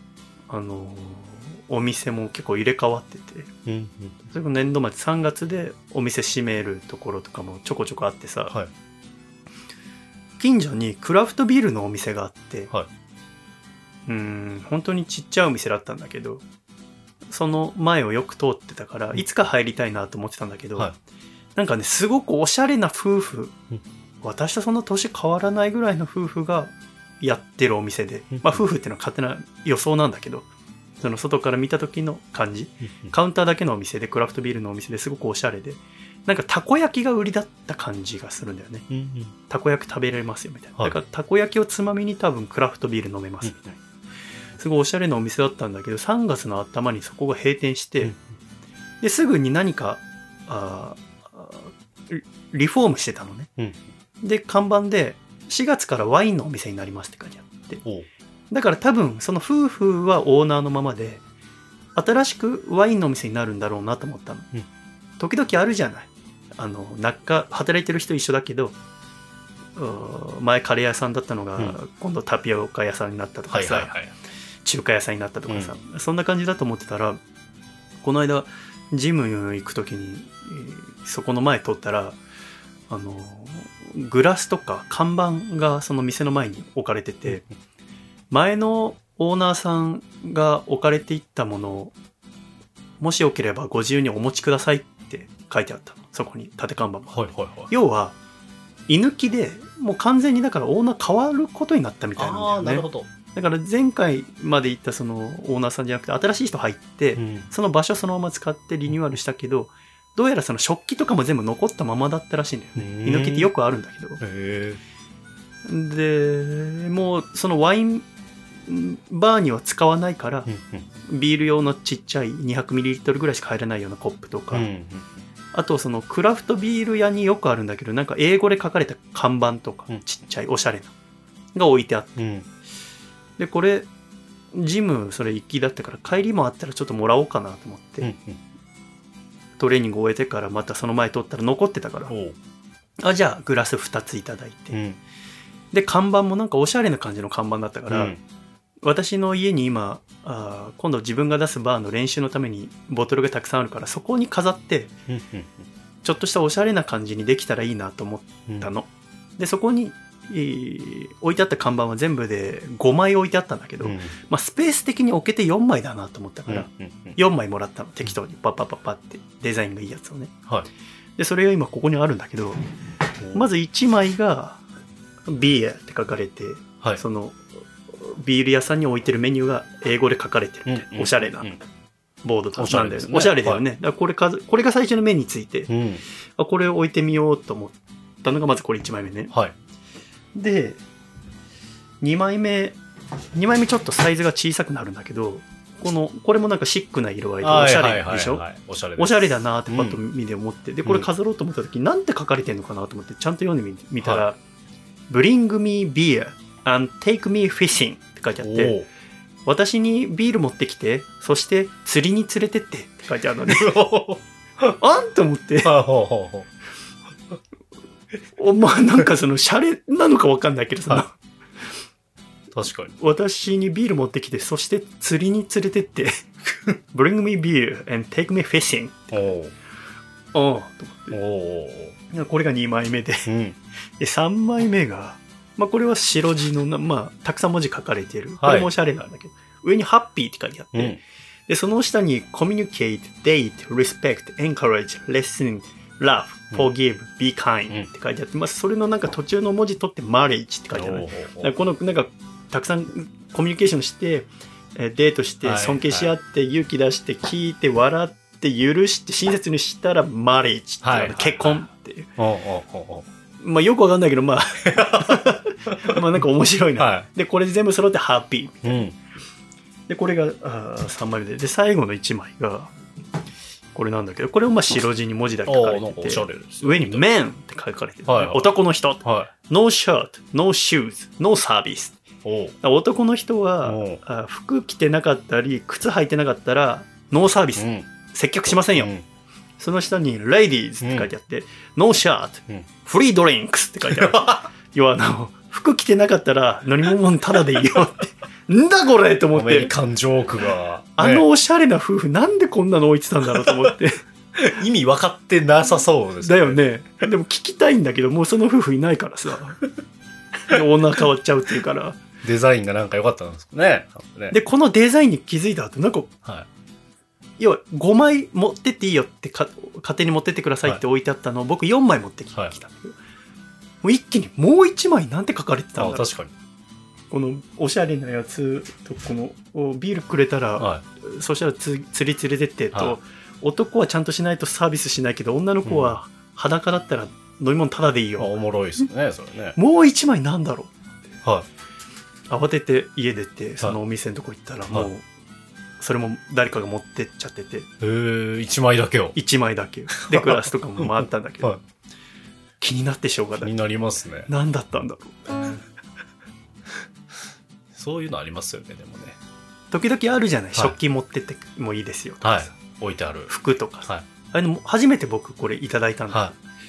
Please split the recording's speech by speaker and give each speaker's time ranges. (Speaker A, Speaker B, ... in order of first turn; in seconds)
Speaker A: 0.5-3.5, 4.3-8.5, 10.4-12.7, 14.1-16.4, 17.3-20.9, 21.6-23.5, 24.2-30.4, 31.0-38.9, 39.5-43.8, 44.6-48.1, 49.0-53.5, 54.2-57.8, 58.5-61.2, 62.0-64.5, 65.2-68.8, 69.8-73.9, 74.6-77.2, 78.0-82.2, 82.9-87.4, 88.3-91.9, 93.0-98.2, 98.9-114.2, 115.6-118.1, 118.7-120.5, 121.0-124.7, 125.5-130.9, 131.5-132.2, 133.4-133.9, 134.5-138.1, 139.6-142.1, 143.0-144.8, 145.7-148.1, 148.8-154.9, 156.0-170.3, 171.2-172.6, 173.3-174.6, 175.3-181.5, 182.2-185.7, 186.4-189.3, 190.3-190.8, 192.0-192.8, 193.3-198.4, 199.0-204.4, 205.1-208.8, 209.4-213.7, 214.8-215.7, 218.3-221.2, 223.0-226.3, 226.9-229.1, 230.3-231.2, 232.1-233.3, 234.0-262.1, 263.4-268.8, 269.9-272.7, 273.7-282.0, 282.6-288.9, 289.6-299.7, 301.0-304.0, 306.2-309.6, 310.4-312.0, 314.3-316.1, 317.4-323.0, 323.8-326.1, 327.1-338.3, 339.6-340.7, 342.3-345.0, 345.8-347.7, 349.1-351.5, 352.6-353.5, 354.3-355.5, 359.7-362.6, 363.3-366.4
Speaker B: 3.6-4.2, 28.3-28.6, 38.9-39.3, 53.6-53.8, 73.5-74.1, 75.5-75.7, 97.1-97.7, 102.2-103.1, 107.2-107.5, 108.9-109.2, 112.8-113.5, 114.2-114.8, 120.5-120.8, 124.5-125.2, 132.2-132.5, 138.0-138.4, 142.1-142.3, 144.7-145.0, 147.9-148.2, 155.1-155.7, 163.8-164.1, 166.5-167.2, 173.2-173.4, 180.7-181.6, 182.6-183.6, 185.7-186.0, 197.4-200.0, 208.4-208.9, 213.5-214.7, 215.6-216.5, 222.5-222.9, 229.1-229.5, 231.1-231.9, 233.2-233.6, 238.4-238.7, 240.7-241.0, 250.7-251.5, 255.4-256.1, 260.8-261.6, 262.2-263.1, 264.7-266.0, 266.8-267.1, 268.6-269.0, 275.4-277.0, 278.1-278.5, 279.0-279.3, 282.2-282.6, 283.6-284.0, 287.6-287.9, 288.7-289.0, 290.8-291.1, 293.9-294.4, 299.3-301.2, 304.4-306.6, 312.2-314.4, 325.8-326.3, 335.6-335.9, 338.2-339.6, 347.8-349.1, 350.0-351.6, 353.4-354.3, 357.7-359.2, 362.2-363.3